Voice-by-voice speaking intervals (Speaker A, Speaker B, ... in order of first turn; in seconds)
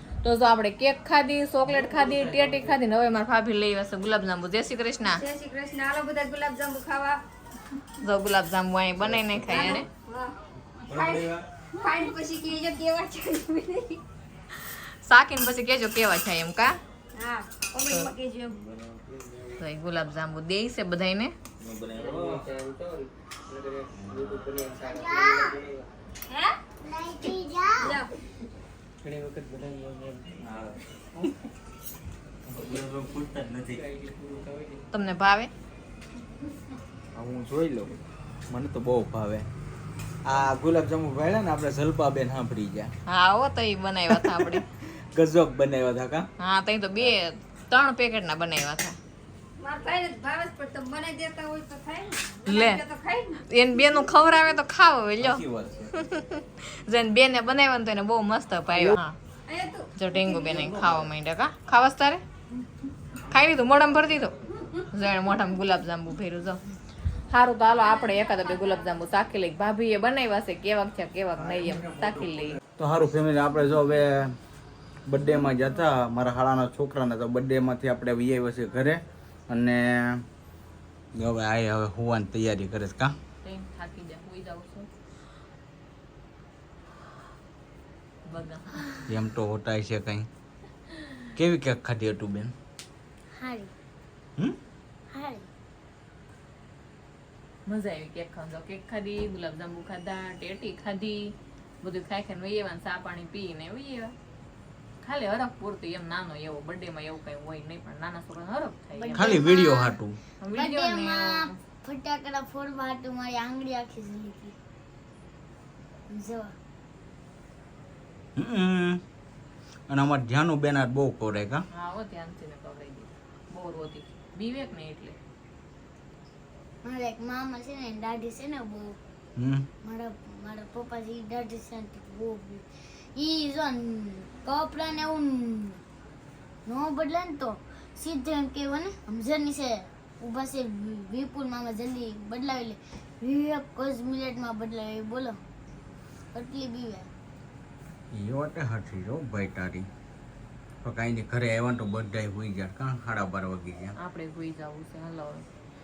Speaker A: 0.2-5.2, 8.0-9.9, 14.6-16.8, 19.5-21.3, 34.9-35.5, 43.1-44.6, 46.4-49.0, 52.5-52.8, 53.5-55.4, 56.0-59.2, 60.0-62.2, 63.3-64.3, 64.9-66.6, 67.3-72.6, 83.4-84.9, 88.3-89.1, 97.7-104.1, 105.0-109.5, 110.4-111.5, 121.7-125.2, 154.0-155.4
Speaker B: 1.7-2.7, 9.0-9.8, 10.9-11.4, 21.6-25.2, 29.0-30.7, 32.5-34.4
Speaker C: 5.1-7.2, 9.4-10.3, 10.9-14.0, 17.1-18.6, 26.3-26.6, 27.8-28.1, 49.6-53.4, 59.5-59.9, 67.9-68.8
Speaker D: 25.0-25.5, 26.8-27.9, 93.3-93.7, 95.1-95.5, 108.9-109.9, 110.5-114.5, 116.1-116.5, 126.8-129.0, 129.8-132.6, 133.2-135.8, 136.7-145.4, 146.3-147.1
Speaker E: 37.1-37.9, 38.5-39.5, 40.2-42.9, 44.1-44.6, 45.1-46.2, 55.2-56.0, 58.7-59.0, 60.2-61.1, 71.4-74.3, 75.0-80.2, 81.1-83.2, 89.1-90.3, 91.3-92.5, 109.1-110.2, 118.3-119.0, 119.9-121.6, 129.4-129.7, 148.1-149.9, 150.8-153.9